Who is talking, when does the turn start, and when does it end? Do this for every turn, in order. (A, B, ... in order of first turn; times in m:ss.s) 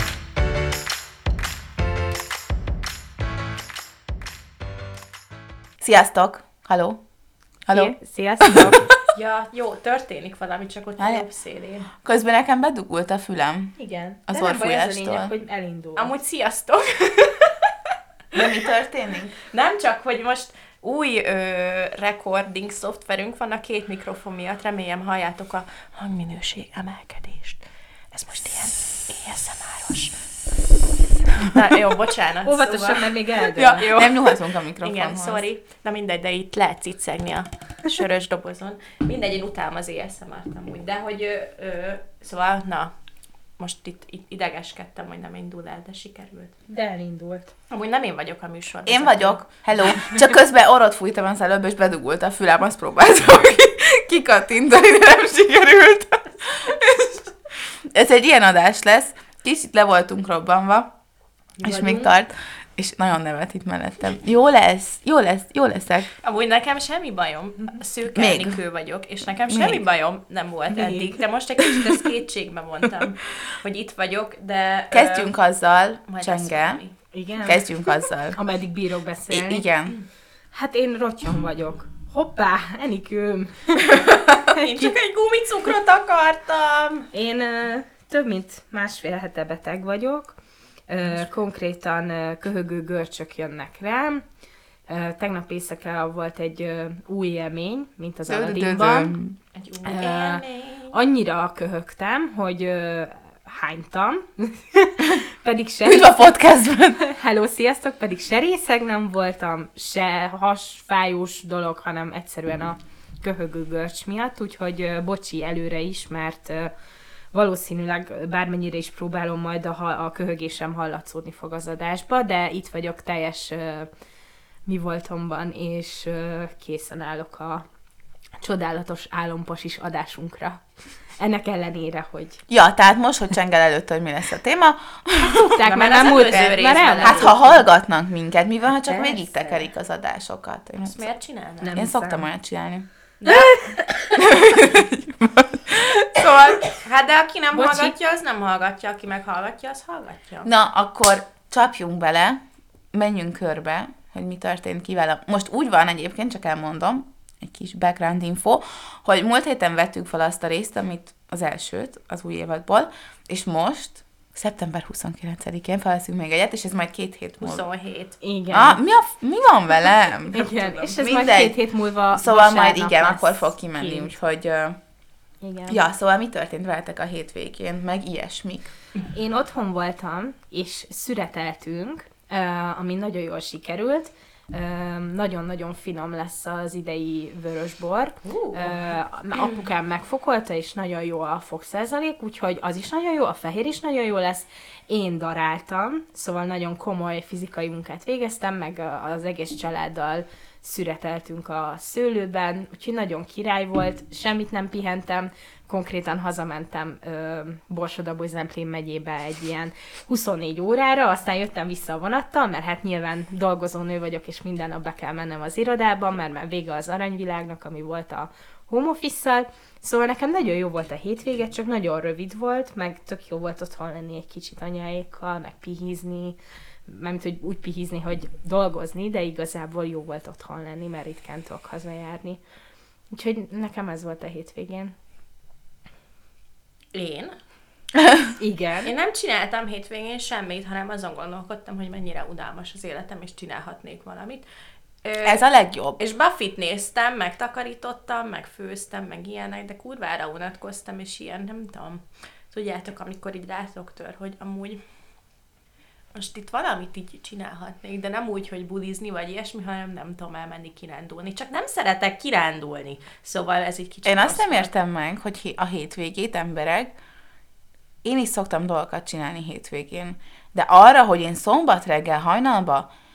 0:05.8-0:07.0 A
0:07.6-0:08.9 A
0:07.7-0:08.8 B
0:09.1-0:11.9 C
0:11.0-0:11.2 A
0:12.0-0:13.8 A
0:13.8-0:16.1 B
0:14.3-0:15.3 A
0:16.0-0:17.7 C
0:18.3-0:19.4 A
0:19.5-0:30.3 C
0:31.4-0:42.9 C
0:32.4-0:33.8 B
0:33.5-0:35.4 A
0:43.6-0:46.5 C
0:46.7-0:47.5 B
0:47.7-0:49.4 C
0:48.8-1:00.9 A
1:01.6-1:02.1 B
1:01.6-1:06.1 A
1:06.2-1:15.3 C
1:08.1-1:08.6 A
1:09.5-1:09.8 A
1:10.7-1:11.1 B
1:14.9-1:16.8 A
1:16.1-1:16.9 C
1:17.1-1:17.6 B
1:17.4-1:18.4 A
1:18.3-1:19.6 B
1:19.3-1:20.0 A
1:20.5-1:24.9 B
1:24.3-1:27.1 C
1:27.1-1:30.4 B
1:30.9-1:34.2 B
1:34.9-1:39.1 B
1:38.2-1:39.4 A
1:39.5-1:40.9 C
1:39.8-1:46.3 B
1:45.8-1:47.0 A
1:47.0-1:56.7 B
1:57.3-2:03.9 B
2:04.6-2:07.6 B
2:08.4-2:12.4 B
2:12.5-2:15.6 A
2:15.3-2:17.3 B
2:15.6-2:17.4 C
2:17.0-2:21.0 A
2:18.9-2:19.6 B
2:20.8-2:21.8 C
2:21.6-2:22.2 B
2:21.7-2:22.9 A
2:23.2-2:23.6 C
2:23.2-2:24.2 B
2:24.1-2:26.6 A
2:26.7-2:30.5 C
2:27.5-2:27.9 B
2:30.4-2:32.4 A
2:32.9-2:47.6 A
2:47.4-2:48.2 C
2:48.2-2:48.8 B
2:48.5-2:51.6 A
2:50.3-2:54.1 B
2:50.4-2:51.0 C
2:52.1-2:54.8 A
2:55.4-2:55.8 B
2:55.7-2:58.7 A
2:59.1-3:52.4 B
3:08.2-3:08.8 C
3:53.1-3:54.9 B
3:56.9-3:57.3 C
3:57.9-3:58.3 A
3:58.4-3:58.9 B
3:58.8-4:04.4 C
4:05.0-4:05.4 C
4:05.2-4:06.0 A
4:06.0-4:14.8 C
4:16.1-4:24.7 C
4:24.0-4:26.9 A
4:28.0-4:32.9 A